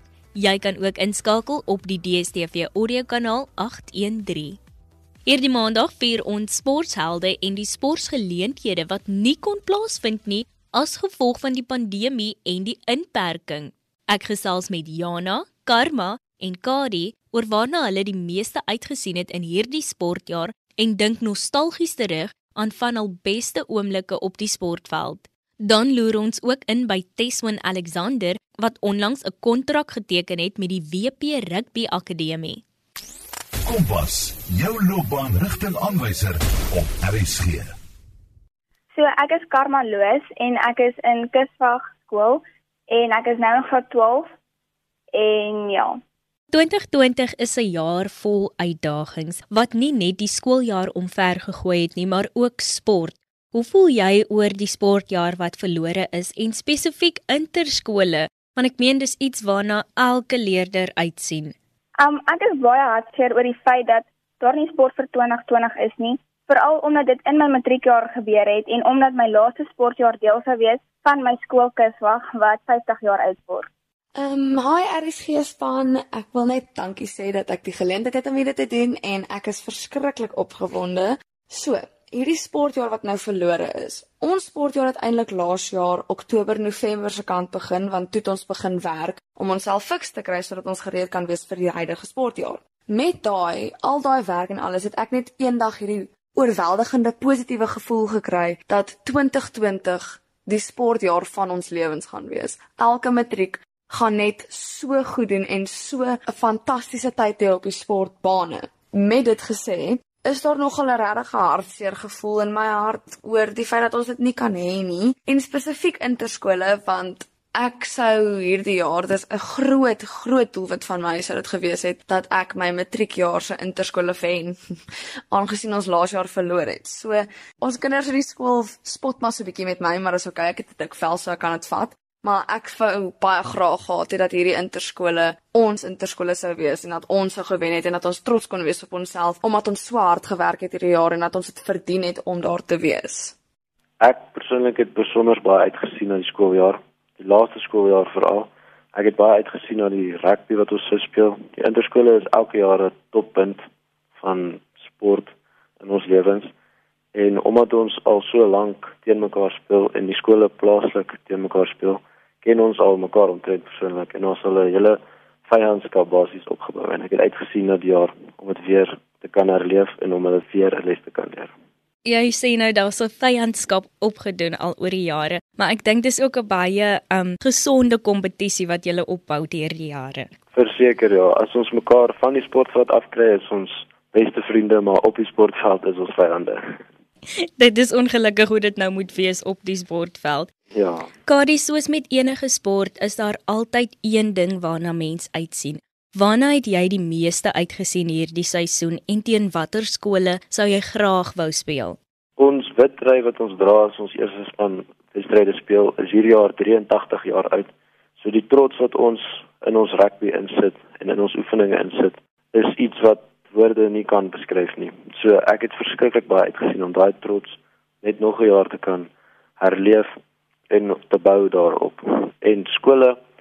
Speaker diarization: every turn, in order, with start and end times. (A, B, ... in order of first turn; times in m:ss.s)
0:00.4-0:04.6 A
0:05.3-0:32.6 A
0:33.7-0:37.7 B
0:38.9-0:44.3 C
0:45.1-0:46.0 C
0:46.5-1:01.5 A
1:02.0-1:13.7 C
1:14.2-2:04.6 D
2:05.3-2:23.4 D
2:24.0-2:33.6 E
2:34.2-2:36.5 E
2:37.1-2:51.5 E
2:52.0-3:00.3 A
3:00.5-3:06.8 E
3:07.4-3:10.5 A
3:10.7-3:11.1 E
3:11.3-3:22.0 A
3:22.4-3:40.1 E
3:40.7-3:43.2 E